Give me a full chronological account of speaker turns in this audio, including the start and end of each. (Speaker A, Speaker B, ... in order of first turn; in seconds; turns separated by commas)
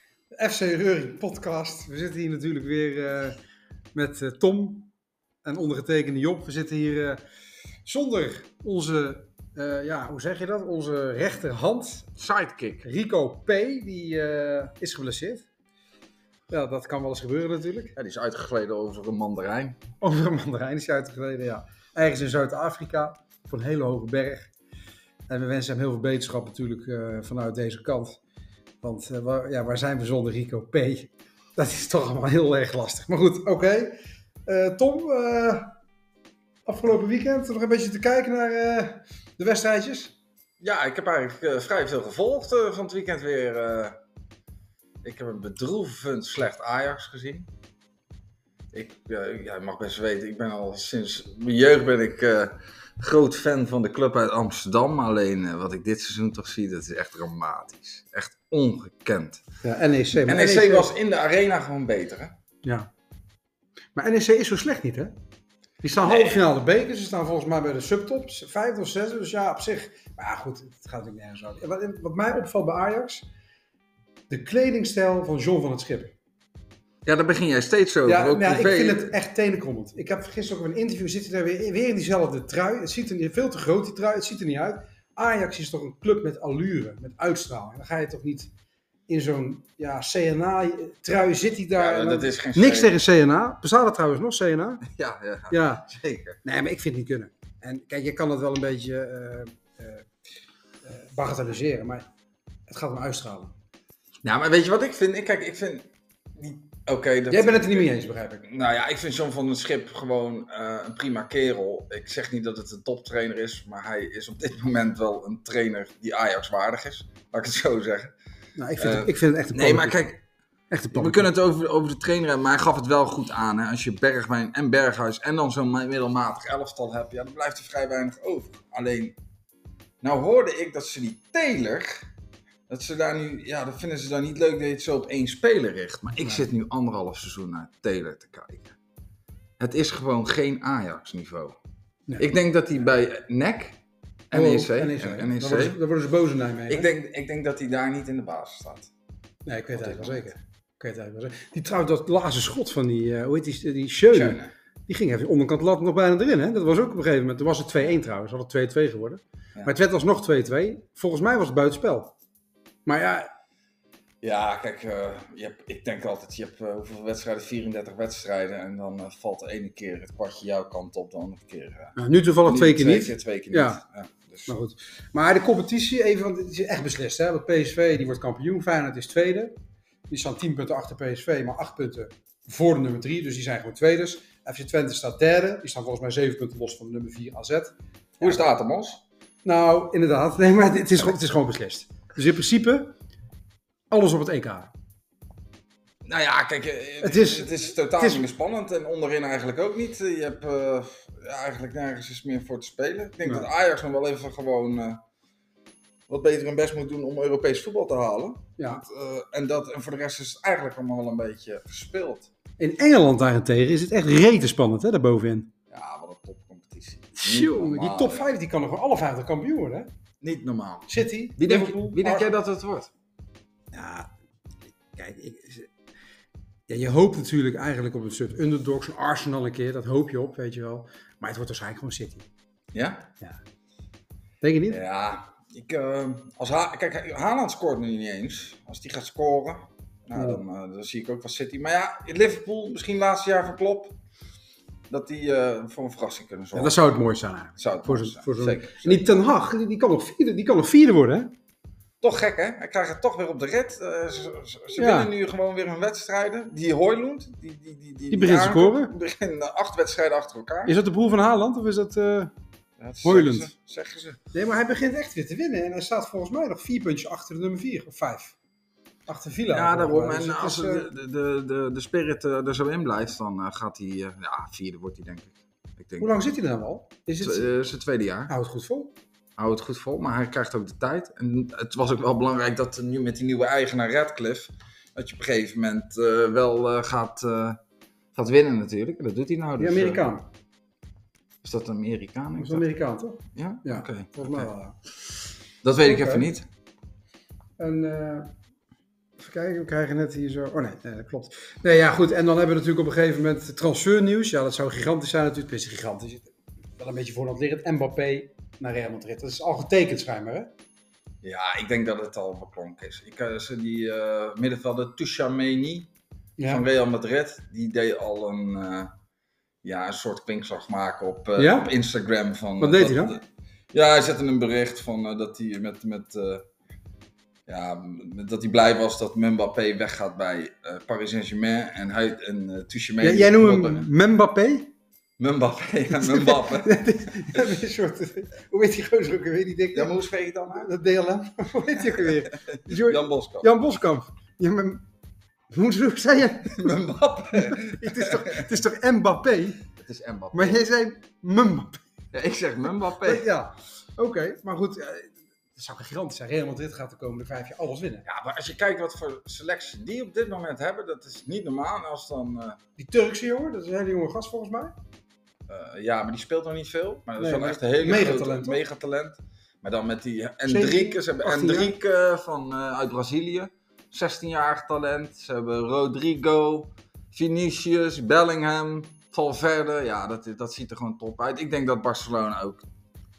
Speaker A: 0.3-3.4, Speaker A: 3.9-4.9, Speaker A: 5.4-7.2, Speaker A: 7.8-12.1, Speaker B: 12.2-12.8, Speaker A: 12.8-15.4, Speaker A: 16.5-17.9, Speaker B: 17.9-19.8, Speaker A: 20.0-24.5, Speaker A: 25.3-28.2, Speaker A: 28.8-35.8, Speaker A: 36.6-40.1, Speaker B: 40.6-44.0, Speaker B: 45.0-47.5, Speaker B: 48.7-59.4, Speaker A: 59.6-60.9, Speaker B: 60.1-62.4, Speaker A: 62.6-62.9, Speaker A: 64.0-65.2, Speaker A: 65.8-73.2, Speaker B: 66.0-66.4, Speaker A: 74.3-76.1, Speaker B: 77.0-79.2, Speaker A: 78.0-88.5, Speaker A: 89.1-94.8, Speaker B: 91.8-93.0, Speaker B: 94.8-96.4, Speaker A: 95.5-95.9, Speaker A: 96.4-100.1, Speaker A: 100.8-102.1, Speaker A: 102.7-103.5, Speaker B: 104.2-107.9, Speaker A: 107.3-108.5, Speaker B: 108.4-118.1, Speaker A: 118.5-120.0, Speaker B: 118.8-120.2, Speaker A: 120.7-121.3, Speaker B: 120.9-129.2, Speaker B: 130.0-132.1, Speaker B: 132.7-138.8, Speaker B: 139.6-141.6, Speaker B: 142.2-143.8, Speaker B: 144.3-145.8, Speaker A: 144.3-146.9, Speaker B: 146.7-148.9, Speaker A: 149.4-162.1, Speaker B: 149.7-150.3, Speaker B: 154.1-154.5, Speaker A: 162.8-163.3, Speaker B: 164.2-174.5, Speaker A: 171.9-173.8, Speaker A: 174.5-179.6, Speaker A: 180.1-188.4, Speaker B: 188.2-189.0, Speaker A: 189.4-192.9, Speaker A: 193.9-194.7, Speaker B: 196.0-205.0, Speaker A: 197.0-198.2, Speaker B: 206.1-212.3, Speaker A: 208.6-208.8, Speaker A: 212.6-215.5, Speaker B: 215.7-218.3, Speaker A: 217.2-219.9, Speaker B: 220.2-222.9, Speaker A: 220.9-222.3, Speaker A: 223.7-224.1, Speaker A: 224.9-225.7, Speaker A: 226.7-232.2, Speaker B: 232.7-233.1, Speaker A: 234.4-234.8, Speaker B: 234.7-244.0, Speaker A: 240.1-240.4, Speaker B: 244.9-246.8, Speaker A: 246.5-251.3, Speaker B: 247.6-249.2, Speaker B: 252.0-260.8, Speaker A: 254.8-255.1, Speaker A: 258.1-258.9, Speaker A: 260.6-262.3, Speaker B: 262.8-264.2, Speaker A: 263.0-263.5, Speaker A: 264.3-268.3, Speaker A: 269.1-270.9, Speaker B: 269.5-276.1, Speaker A: 276.0-277.5, Speaker B: 277.2-278.3, Speaker A: 278.3-278.9, Speaker B: 279.4-287.6, Speaker B: 288.1-290.1, Speaker A: 289.6-290.3, Speaker B: 291.4-292.6, Speaker A: 292.4-294.8, Speaker B: 293.3-294.5, Speaker B: 295.6-296.4, Speaker A: 295.8-296.3, Speaker A: 297.6-298.3, Speaker A: 299.2-310.5, Speaker B: 311.2-315.9, Speaker A: 316.4-316.6, Speaker B: 316.5-318.9, Speaker B: 319.6-326.4, Speaker A: 321.4-321.7, Speaker A: 322.6-323.2, Speaker B: 327.5-333.9, Speaker A: 333.0-334.7, Speaker B: 335.2-337.5, Speaker A: 335.9-339.9, Speaker B: 339.7-340.7, Speaker A: 340.5-344.8, Speaker B: 341.8-343.5, Speaker A: 345.5-346.7, Speaker B: 346.5-348.5, Speaker A: 347.3-349.6, Speaker B: 349.8-350.6, Speaker A: 350.3-351.8, Speaker B: 352.1-353.2, Speaker A: 353.0-358.1, Speaker B: 358.0-362.6, Speaker A: 362.8-364.7, Speaker B: 365.5-382.6, Speaker A: 367.2-368.6, Speaker A: 370.4-371.7